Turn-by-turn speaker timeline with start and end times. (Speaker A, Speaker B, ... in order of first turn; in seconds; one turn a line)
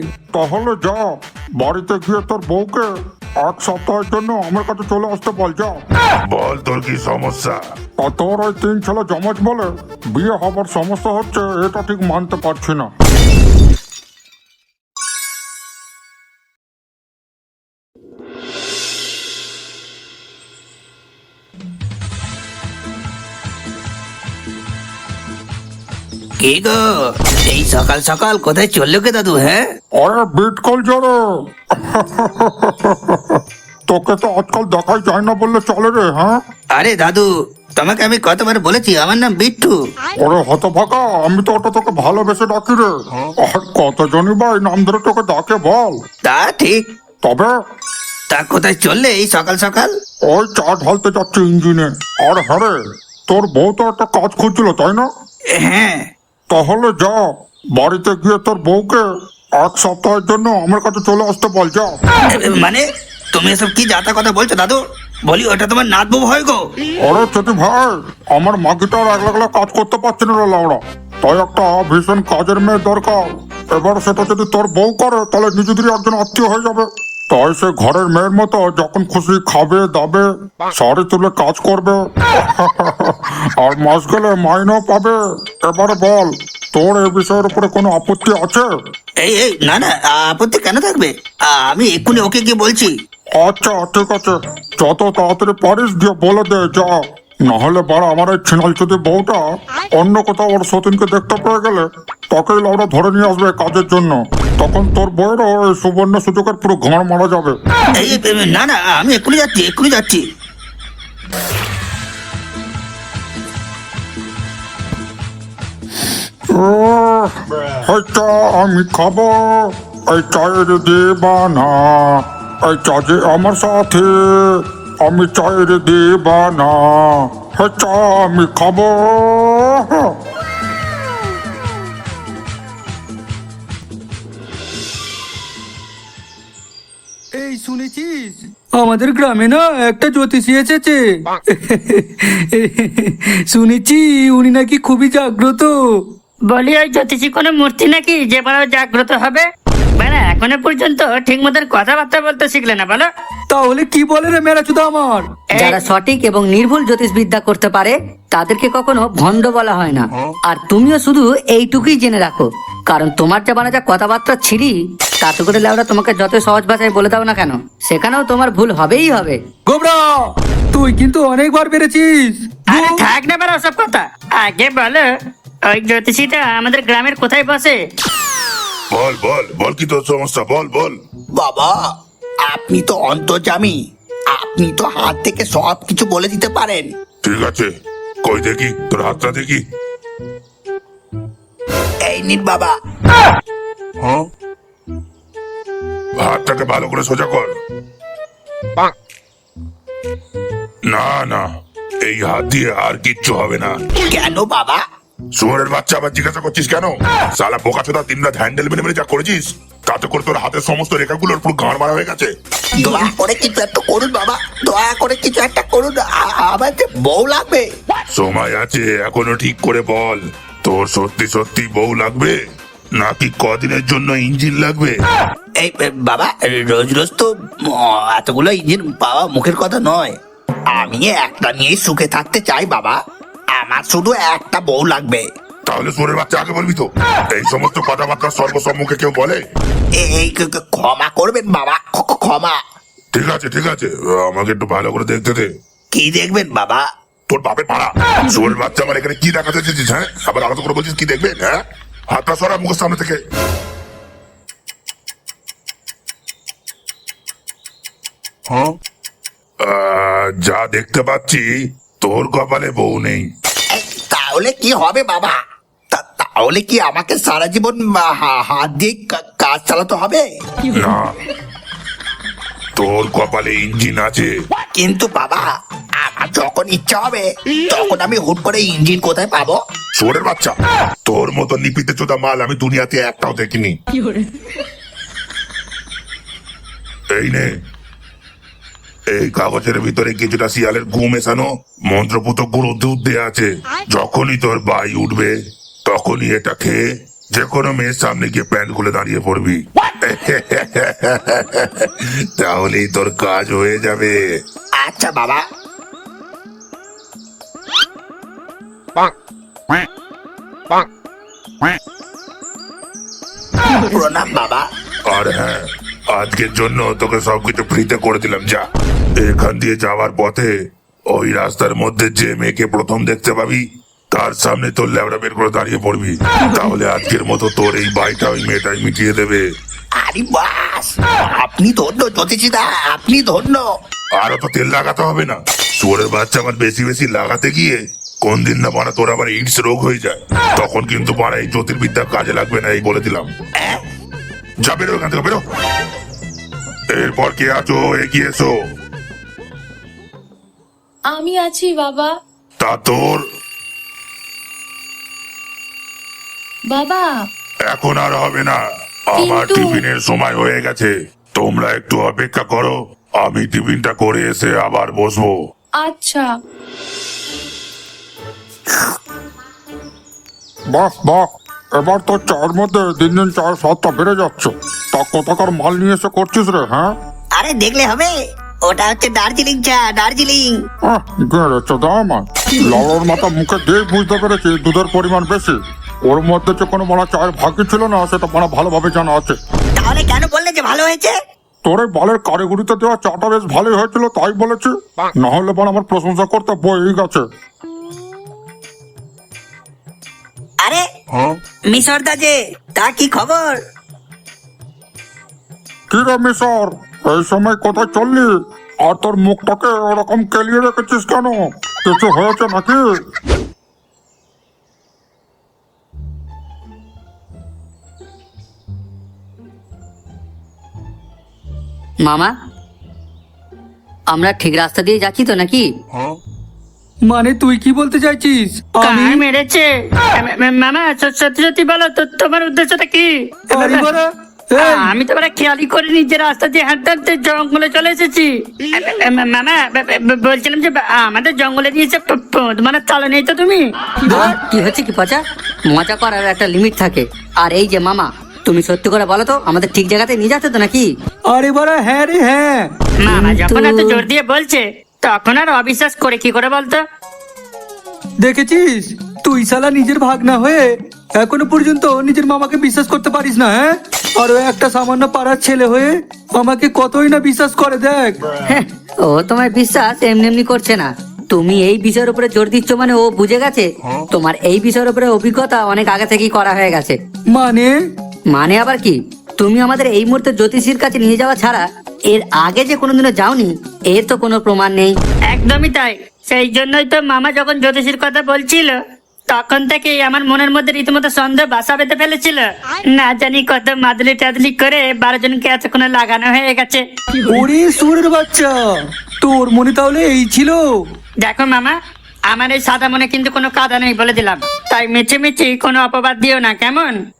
Speaker A: 0.3-1.0
Speaker A: 1.6-2.9
Speaker A: 3.4-5.7
Speaker B: 6.3-7.6
Speaker A: 8.0-12.9
Speaker C: 26.4-29.7
Speaker A: 30.0-31.1
Speaker A: 31.9-33.2
Speaker A: 33.9-36.3
Speaker C: 36.7-39.8
Speaker A: 40.2-42.9
Speaker A: 43.5-45.9
Speaker C: 46.2-46.8
Speaker A: 47.2-47.5
Speaker C: 48.3-49.9
Speaker A: 50.3-52.7
Speaker A: 53.3-55.1
Speaker C: 55.5-56.0
Speaker A: 56.5-57.2
Speaker A: 57.8-59.0
Speaker A: 59.6-61.9
Speaker C: 62.1-66.6
Speaker A: 67.0-73.2
Speaker A: 73.8-85.1
Speaker A: 85.7-88.7
Speaker C: 89.2-92.9
Speaker A: 93.4-96.9
Speaker A: 97.5-99.4
Speaker A: 100.0-107.5
Speaker C: 107.9-110.2
Speaker A: 116.5-117.3
Speaker A: 117.8-119.6
Speaker A: 120.1-124.1
Speaker A: 125.0-130.0
Speaker D: 137.3-146.0
Speaker E: 146.5-149.4
Speaker E: 150.0-153.1
Speaker D: 153.5-155.3
Speaker E: 155.6-155.8
Speaker F: 155.6-169.4
Speaker D: 169.7-173.0
Speaker E: 172.7-175.1
Speaker E: 175.7-177.8
Speaker B: 178.9-181.0
Speaker C: 181.3-181.8
Speaker C: 182.4-183.8
Speaker C: 184.3-186.9
Speaker B: 187.2-187.7
Speaker B: 188.2-189.6
Speaker C: 192.0-192.7
Speaker B: 196.2-197.5
Speaker B: 200.9-201.4
Speaker B: 202.0-203.8
Speaker C: 204.1-204.8
Speaker B: 205.3-212.3
Speaker C: 212.8-217.7
Speaker B: 218.1-222.4
Speaker B: 222.9-225.0
Speaker C: 225.6-233.0
Speaker C: 233.5-235.2
Speaker B: 235.7-239.4
Speaker C: 239.9-242.6
Speaker B: 243.1-245.5
Speaker C: 245.9-246.8
Speaker B: 247.3-253.2
Speaker B: 259.6-261.5
Speaker B: 262.0-263.3
Speaker C: 263.7-265.3
Speaker C: 265.9-270.2
Speaker B: 270.7-271.1
Speaker B: 272.7-274.4
Speaker C: 274.7-275.4
Speaker C: 276.0-279.6
Speaker B: 279.9-283.8
Speaker B: 287.1-287.5
Speaker B: 289.1-304.2
Speaker C: 304.8-305.4
Speaker C: 313.8-314.6
Speaker B: 315.1-318.6
Speaker B: 319.1-320.5
Speaker B: 321.1-329.5
Speaker C: 330.0-333.6
Speaker B: 334.2-343.3
Speaker B: 344.6-345.4
Speaker B: 346.9-348.5
Speaker G: 351.1-352.1
Speaker B: 352.6-353.2
Speaker G: 356.7-357.1
Speaker B: 357.6-365.4
Speaker G: 359.2-359.8
Speaker G: 365.8-366.2
Speaker A: 370.7-371.2
Speaker A: 371.8-376.9
Speaker C: 377.3-380.6
Speaker A: 380.9-385.6
Speaker A: 386.1-389.4
Speaker C: 389.8-391.1
Speaker A: 391.6-397.2
Speaker C: 401.7-403.6
Speaker A: 405.9-408.3
Speaker A: 408.8-412.8
Speaker F: 422.0-422.3
Speaker F: 424.1-425.7
Speaker D: 427.0-429.2
Speaker E: 428.8-433.9
Speaker D: 433.5-434.9
Speaker E: 434.6-444.3
Speaker F: 444.4-450.9
Speaker D: 451.3-452.7
Speaker E: 453.0-456.8
Speaker D: 458.2-468.2
Speaker F: 468.5-477.0
Speaker D: 477.3-477.7
Speaker F: 478.3-485.0
Speaker E: 485.3-488.8
Speaker E: 489.3-496.8
Speaker D: 497.3-498.6
Speaker D: 499.2-500.6
Speaker E: 501.2-501.8
Speaker E: 502.3-507.0